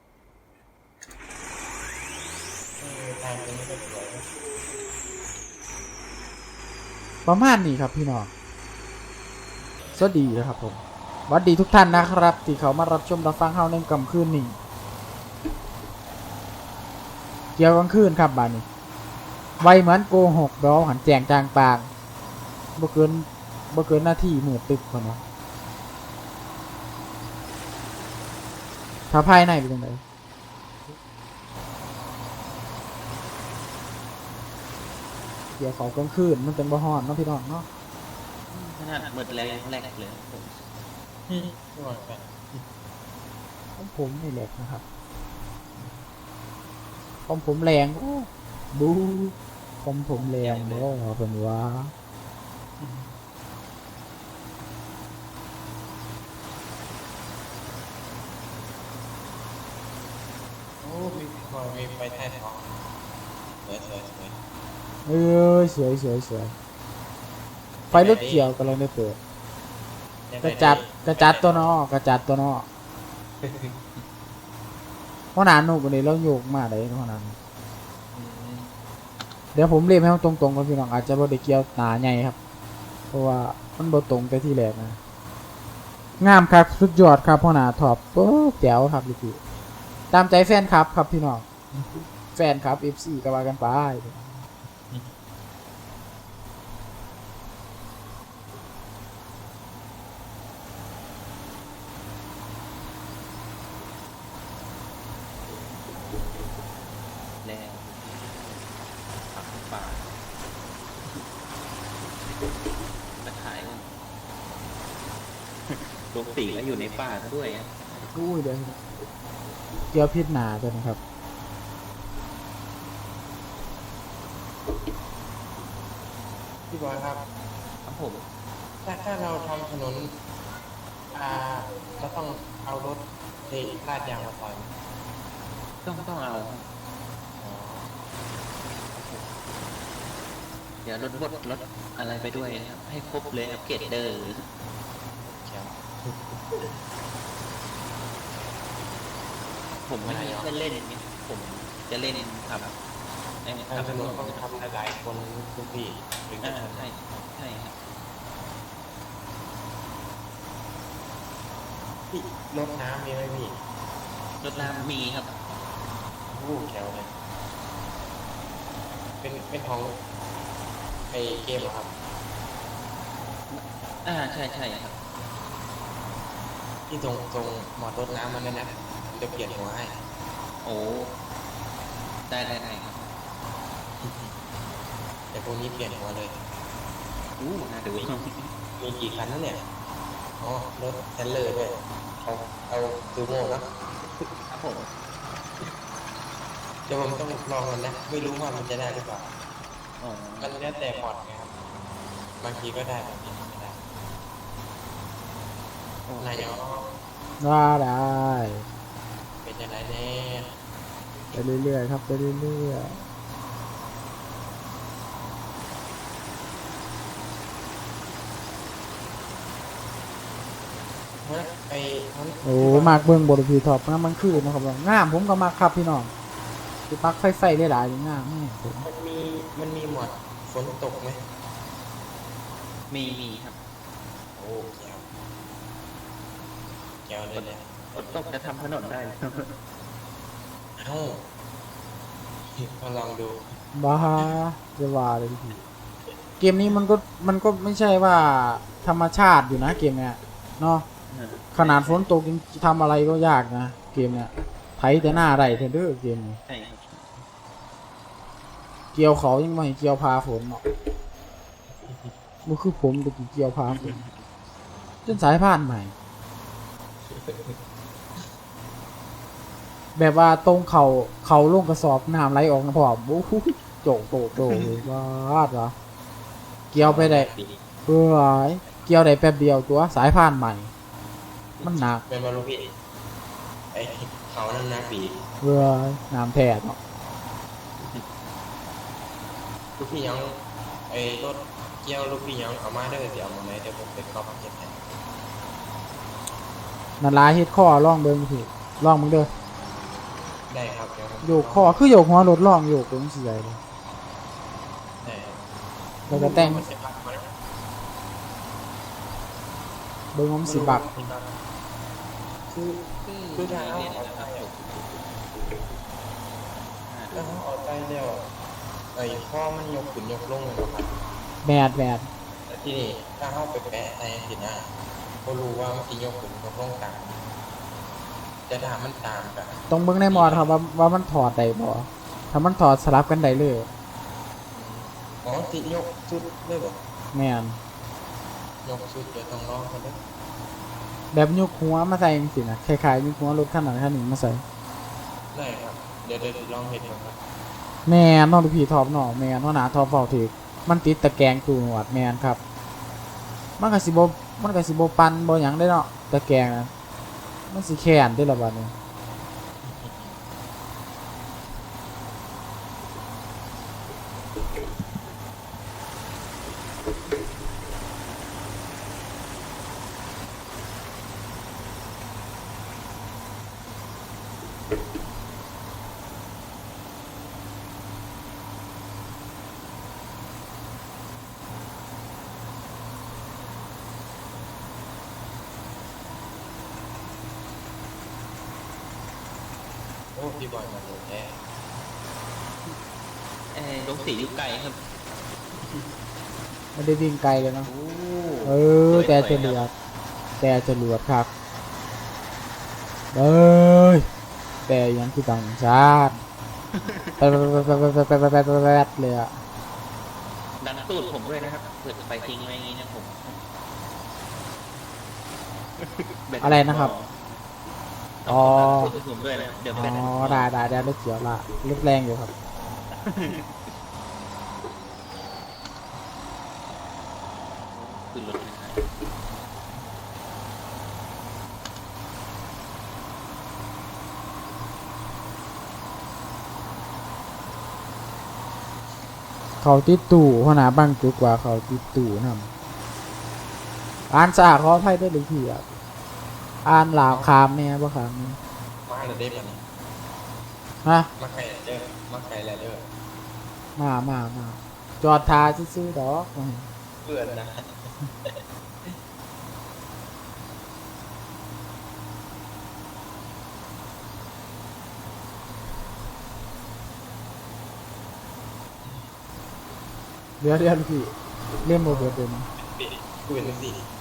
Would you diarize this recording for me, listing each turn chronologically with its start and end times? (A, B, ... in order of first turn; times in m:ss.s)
0:02.8-0:04.3 A
0:07.2-0:08.3 B
0:10.0-0:14.6 B
0:17.6-0:18.7 B
0:19.6-0:21.9 B
0:22.8-0:25.2 B
0:29.1-0:30.0 B
0:35.6-0:37.7 B
0:38.5-0:40.6 C
0:41.3-0:42.7 A
0:43.8-0:44.8 B
0:45.7-0:46.0 A
0:47.3-0:51.9 B
0:50.2-0:50.9 C
0:52.8-0:53.2 A
1:00.8-1:02.7 A
1:03.7-1:04.4 A
1:05.1-1:06.5 B
1:07.9-1:08.5 A
1:07.9-1:09.2 B
1:10.3-1:11.7 A
1:10.4-1:12.7 B
1:13.4-1:14.0 A
1:15.4-1:17.4 B
1:18.1-1:18.7 A
1:19.5-1:22.4 B
1:23.1-1:25.0 B
1:26.2-1:29.4 B
1:30.1-1:31.7 B
1:32.3-1:34.4 B
1:47.4-1:48.7 C
1:49.3-1:50.1 C
1:53.2-1:53.9 C
1:55.7-1:57.9 C
1:58.1-1:58.8 B
1:59.9-2:01.0 B
2:06.7-2:07.2 A
2:07.8-2:08.2 C
2:08.8-2:10.1 A
2:11.1-2:14.7 A
2:15.8-2:16.7 C
2:17.4-2:17.9 A
2:19.0-2:19.2 C
2:20.8-2:24.4 C
2:25.2-2:26.6 A
2:29.8-2:32.8 C
2:30.0-2:30.5 A
2:33.4-2:34.5 C
2:33.7-2:36.9 A
2:36.4-2:37.8 C
2:42.1-2:43.6 A
2:44.4-2:45.3 C
2:46.3-2:47.1 A
2:49.2-2:50.0 A
2:51.1-2:51.9 A
2:53.5-2:55.0 C
2:56.9-3:00.0 A
3:00.6-3:01.2 C
3:02.3-3:03.1 C
3:04.0-3:04.3 A
3:05.3-3:06.4 A
3:07.4-3:08.5 C
3:08.8-3:09.6 A
3:10.4-3:13.7 A
3:14.5-3:14.9 C
3:16.9-3:19.3 A
3:20.0-3:20.6 C
3:20.4-3:21.5 A
3:22.4-3:23.8 A
3:26.1-3:26.5 C
3:26.2-3:26.9 A
3:27.4-3:28.7 B
3:29.4-3:30.5 A
3:31.3-3:33.0 B
3:41.2-3:43.1 A
3:42.4-3:46.1 B
3:46.9-3:48.9 B
3:48.8-3:51.2 A
3:52.9-3:53.6 C
3:54.4-3:55.1 A
3:57.0-3:58.3 A
3:57.4-3:59.5 C
4:00.8-4:01.2 A
4:02.6-4:03.6 A
4:03.8-4:05.6 B
4:06.4-4:10.9 B
4:11.1-4:12.1 C
4:11.5-4:16.4 B
4:15.0-4:15.7 C
4:16.5-4:17.1 C
4:18.9-4:20.6 B
4:21.8-4:22.1 A
4:22.5-4:24.0 B
4:23.8-4:24.2 C
4:25.1-4:25.9 B
4:27.1-4:27.6 A
4:30.0-4:35.7 B
4:36.7-4:37.3 B
4:36.8-4:37.6 A
4:37.9-4:40.7 B
4:41.6-4:41.8 C
4:41.6-4:42.0 B
4:42.1-4:42.7 A
4:43.7-4:45.7 A
4:45.4-4:46.8 B
4:47.8-4:48.0 C
4:49.8-4:54.8 A
4:57.0-4:59.3 B
5:00.5-5:01.8 A
5:01.2-5:03.6 B
5:05.0-5:05.4 A
5:06.1-5:06.6 B
5:06.1-5:07.3 A
5:10.1-5:11.0 B
5:10.4-5:11.3 A
5:12.5-5:12.8 A
5:13.0-5:14.7 C
5:13.4-5:14.5 A
5:16.7-5:17.4 C
5:17.1-5:18.3 A
5:18.9-5:20.9 A
5:21.4-5:22.1 B
5:22.5-5:24.7 A
5:25.2-5:27.2 A
5:28.5-5:29.6 A
5:29.7-5:33.7 B
5:30.1-5:30.5 A
5:34.5-5:36.8 A
5:37.1-5:37.6 B
5:38.6-5:40.0 A
5:41.1-5:44.4 B
5:45.3-5:47.2 A
5:47.9-5:52.4 B
5:53.6-5:56.7 B
5:57.5-5:58.7 B
5:59.6-6:00.2 A
6:30.2-6:31.4 A
6:33.5-6:34.8 C
6:36.8-6:37.7 B
6:37.6-6:39.7 C
6:38.4-6:39.7 B
6:40.4-6:41.3 B
6:43.1-6:44.1 B
6:44.7-6:46.2 B
6:46.7-6:47.7 C
6:47.2-6:49.4 B
6:50.6-6:53.4 C
6:55.8-6:57.5 C
6:56.4-6:56.9 B
6:58.2-7:00.5 C
6:58.3-6:58.9 B
6:59.7-7:02.3 B
7:02.9-7:03.7 C
7:07.7-7:08.9 C
7:19.6-7:22.5 B
7:24.1-7:25.6 B
7:26.6-7:28.4 B
7:28.8-7:29.6 A
7:30.8-7:31.1 B
7:31.2-7:32.8 A
7:33.8-7:36.7 B
7:37.0-7:39.0 A
7:50.4-7:52.5 B
7:51.8-7:53.8 A